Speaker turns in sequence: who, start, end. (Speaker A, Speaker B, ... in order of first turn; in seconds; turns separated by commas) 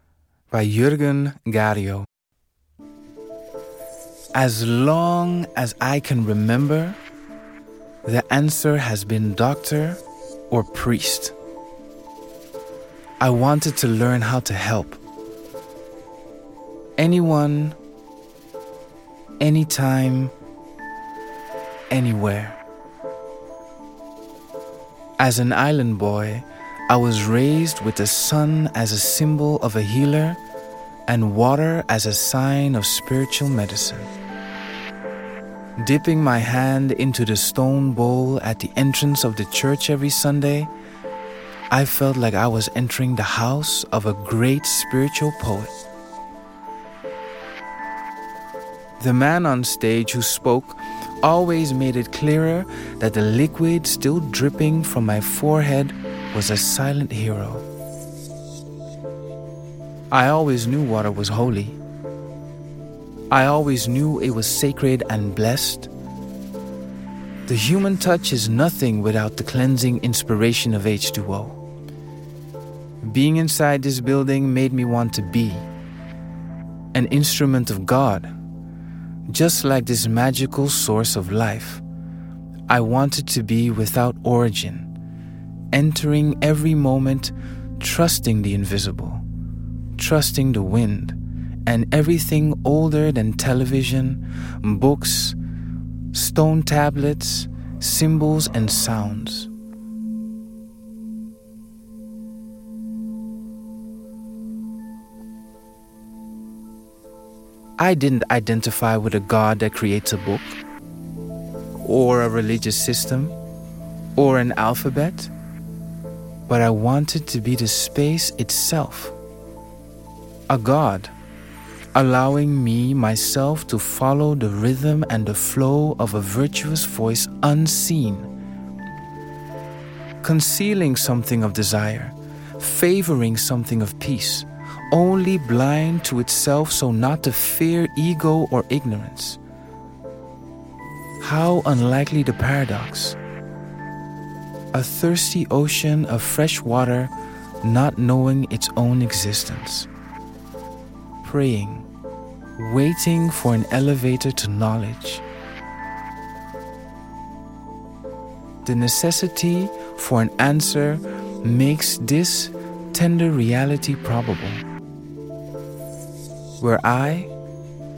Speaker A: 0.5-2.1, Speaker A: 4.3-7.0, Speaker A: 8.0-11.3, Speaker A: 13.2-15.0, Speaker A: 17.0-17.8, Speaker A: 19.4-20.3, Speaker A: 21.9-22.6, Speaker A: 25.2-30.4, Speaker A: 31.1-34.1, Speaker A: 35.8-40.7, Speaker A: 41.7-45.7, Speaker A: 49.0-57.6, Speaker A: 60.1-61.8, Speaker A: 63.3-65.9, Speaker A: 67.5-71.6, Speaker A: 73.0-75.7, Speaker A: 76.9-78.3, Speaker A: 79.3-81.8, Speaker A: 82.7-84.9, Speaker A: 85.7-89.2, Speaker A: 90.0-95.4, Speaker A: 96.1-99.5, Speaker A: 107.8-110.6, Speaker A: 111.8-113.3, Speaker A: 114.2-115.3, Speaker A: 116.5-119.2, Speaker A: 120.5-121.1, Speaker A: 121.9-128.3, Speaker A: 130.2-139.4, Speaker A: 141.2-143.2, Speaker A: 144.7-149.9, Speaker A: 151.2-151.9, Speaker A: 152.6-155.2, Speaker A: 158.6-164.6, Speaker A: 166.6-167.3